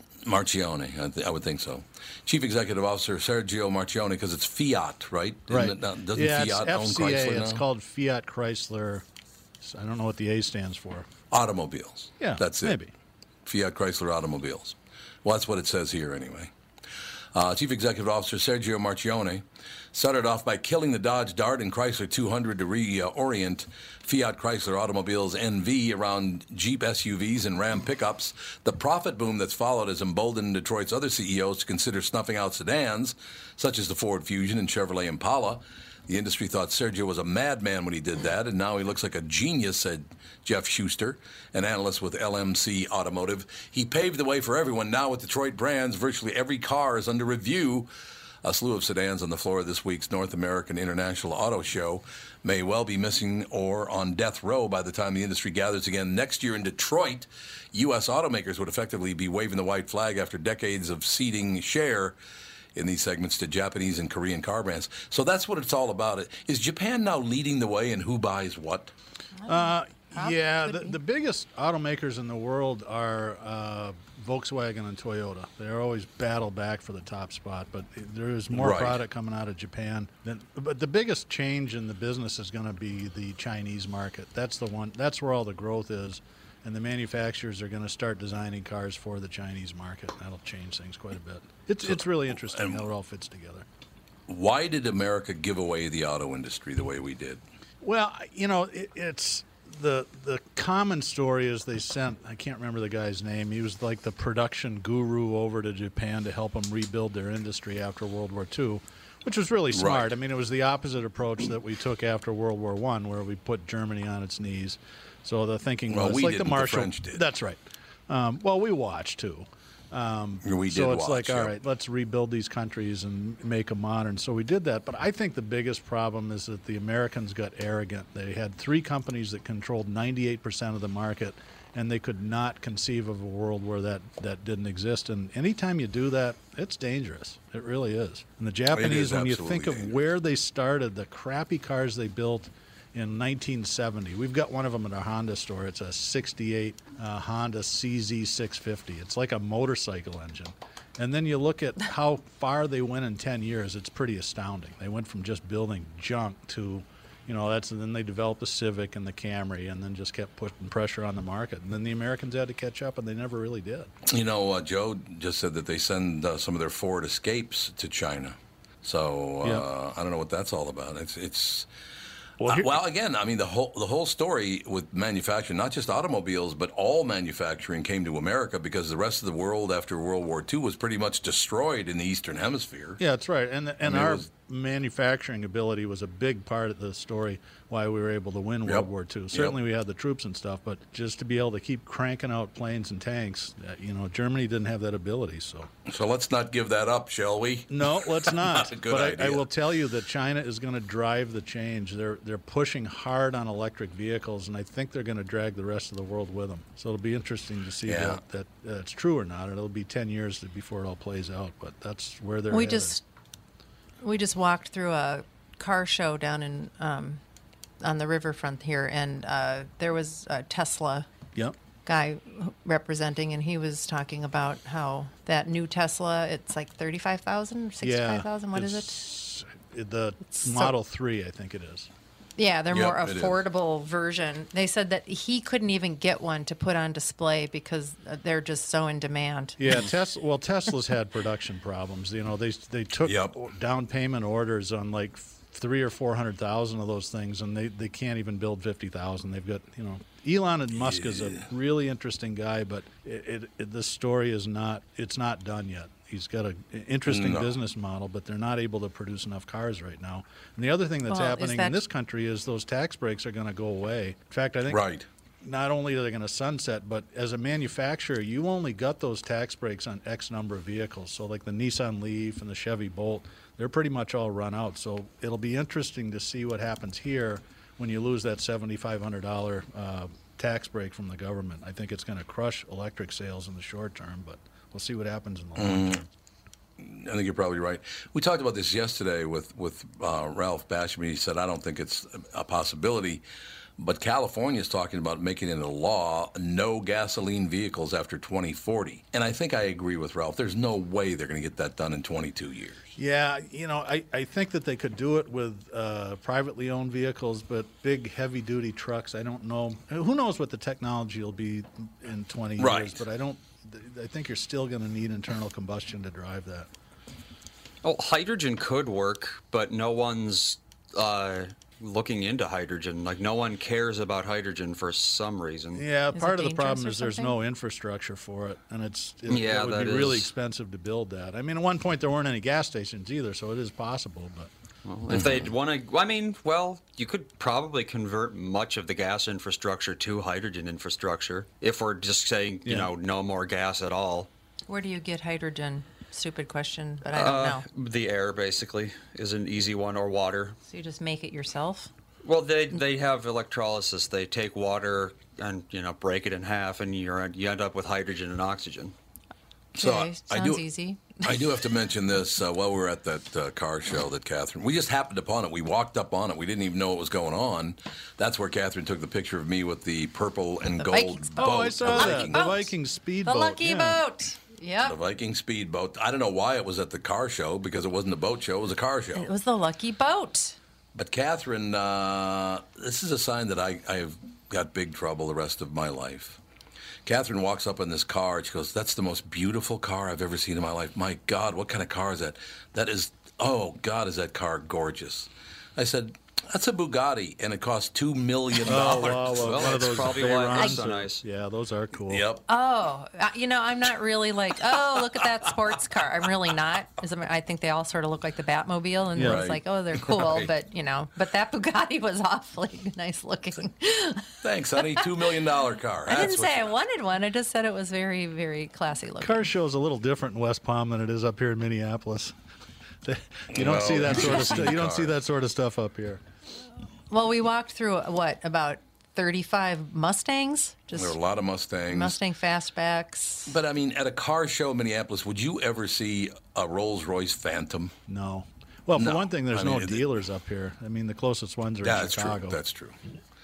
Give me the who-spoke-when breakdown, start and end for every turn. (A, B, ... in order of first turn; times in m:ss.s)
0:00.2-0:07.6 A
0:05.5-0:09.0 B
0:09.6-0:11.1 B
0:11.3-0:12.8 A
0:12.2-0:12.9 B
0:13.4-0:16.5 A
0:17.3-0:47.9 A
0:48.4-1:02.2 A
1:02.7-1:08.9 A
1:09.4-1:11.0 C
1:09.5-1:33.6 B
1:18.5-1:19.0 A
1:31.8-1:32.8 A
1:34.3-1:37.4 A
1:37.8-2:43.9 B
1:49.7-1:50.2 A
1:55.9-1:57.2 A
2:00.4-2:01.6 A
2:18.7-2:20.0 A
2:44.1-2:51.7 A
2:52.4-2:52.8 B
2:52.4-3:03.0 A
3:03.0-3:15.7 B
3:03.8-3:04.3 A
3:08.6-3:09.6 A
3:15.8-3:19.5 A
3:17.7-3:33.0 B
3:27.8-3:28.2 A
3:32.5-3:33.0 C
3:34.0-3:37.2 C
3:37.8-3:41.1 C
3:41.8-3:49.0 C
3:47.8-3:51.9 B
3:50.3-3:50.7 C
3:52.4-3:59.8 C
3:52.7-3:53.4 A
3:59.6-4:24.8 B
4:03.0-4:03.4 A
4:10.8-4:11.5 A
4:17.0-4:17.5 A
4:21.1-4:21.8 C
4:24.7-4:25.1 A
4:25.4-4:46.0 B
4:45.6-4:46.0 A
4:46.8-4:53.2 A
4:53.8-5:03.0 A
5:03.0-5:16.7 B
5:12.6-5:13.0 A
5:17.8-5:25.8 D
5:25.7-5:34.5 B
5:26.1-5:27.4 C
5:29.3-5:30.3 D
5:34.8-5:44.3 D
5:35.1-5:35.5 A
5:42.6-5:42.9 B
5:44.7-5:47.6 C
5:47.1-5:50.6 D
5:50.7-5:51.9 C
5:52.2-5:58.9 D
5:59.7-6:01.6 C
5:59.8-6:00.7 A
6:01.2-6:12.5 A
6:10.8-6:15.0 C
6:11.4-6:14.0 B
6:14.8-6:19.3 A
6:19.2-6:20.6 C
6:20.9-6:26.4 A
6:27.0-6:40.1 A
6:38.6-6:42.2 B
6:39.4-6:41.2 D
6:42.1-6:42.4 A
6:42.5-6:55.1 C
6:44.7-6:46.2 A
6:49.1-6:49.4 B
6:49.2-6:49.6 A
6:50.1-6:50.5 D
6:54.4-6:56.8 A
6:56.1-6:59.5 C
6:59.2-7:02.3 B
7:03.0-7:06.2 B
7:03.5-7:05.2 A
7:04.2-7:04.6 C
7:07.1-7:11.2 C
7:10.9-7:12.2 A
7:11.9-7:13.6 C
7:13.5-7:17.9 A
7:18.1-7:22.6 B
7:18.9-7:20.1 A
7:21.8-7:23.0 A